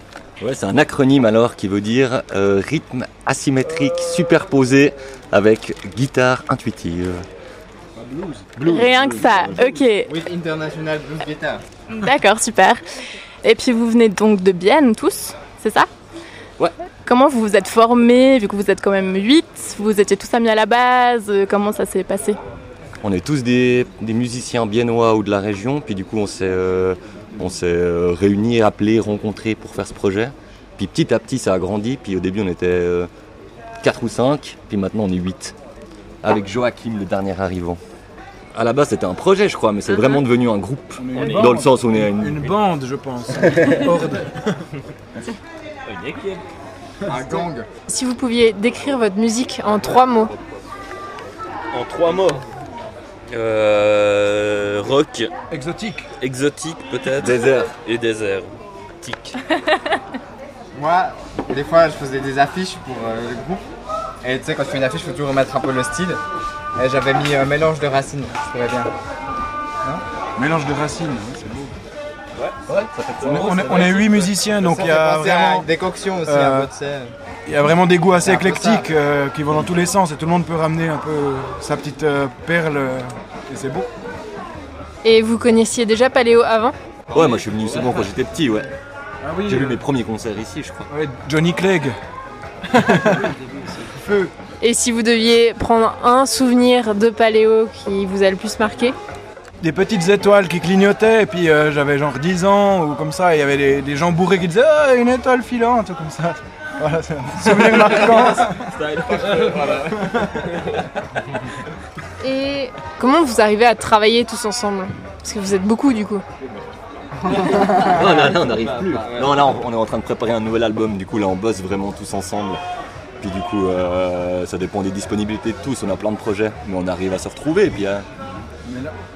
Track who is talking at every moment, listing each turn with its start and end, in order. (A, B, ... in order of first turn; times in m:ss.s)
0:00.4-0:07.2 A
0:08.0-0:08.5 B
0:08.6-0:10.1 C
0:08.6-0:09.2 A
0:09.5-0:09.7 B
0:10.0-0:11.6 D
0:11.9-0:12.8 C
0:13.4-0:15.9 C
0:17.0-0:22.4 C
0:23.0-0:33.1 A
0:33.8-0:35.5 A
0:36.2-0:37.8 A
0:38.5-0:42.4 A
0:41.0-0:44.4 B
0:45.9-0:46.4 E
0:47.1-0:47.7 D
0:47.9-0:50.3 F
0:51.7-0:52.4 E
0:53.3-0:55.3 E
0:55.5-0:56.1 B
0:56.2-0:58.5 E
0:57.0-0:57.9 A
0:59.0-0:59.4 E
1:00.7-1:03.6 D
1:04.2-1:06.2 D
1:06.8-1:08.9 D
1:10.4-1:11.7 B
1:12.6-1:14.0 A
1:13.2-1:14.0 E
1:13.2-1:15.7 B
1:14.6-1:17.1 D
1:16.2-1:16.7 B
1:17.5-1:23.9 B
1:18.2-1:18.9 D
1:25.0-1:26.8 F
1:27.1-1:28.7 A
1:29.2-1:29.8 B
1:29.4-1:30.9 A
1:30.9-1:32.0 B
1:32.7-1:33.3 B
1:33.9-1:34.3 B
1:34.6-1:39.0 F
1:39.6-1:48.7 B
1:48.8-1:49.8 E
1:52.2-1:56.2 F
1:57.3-2:02.6 A
2:03.2-2:08.0 A
2:08.6-2:08.9 B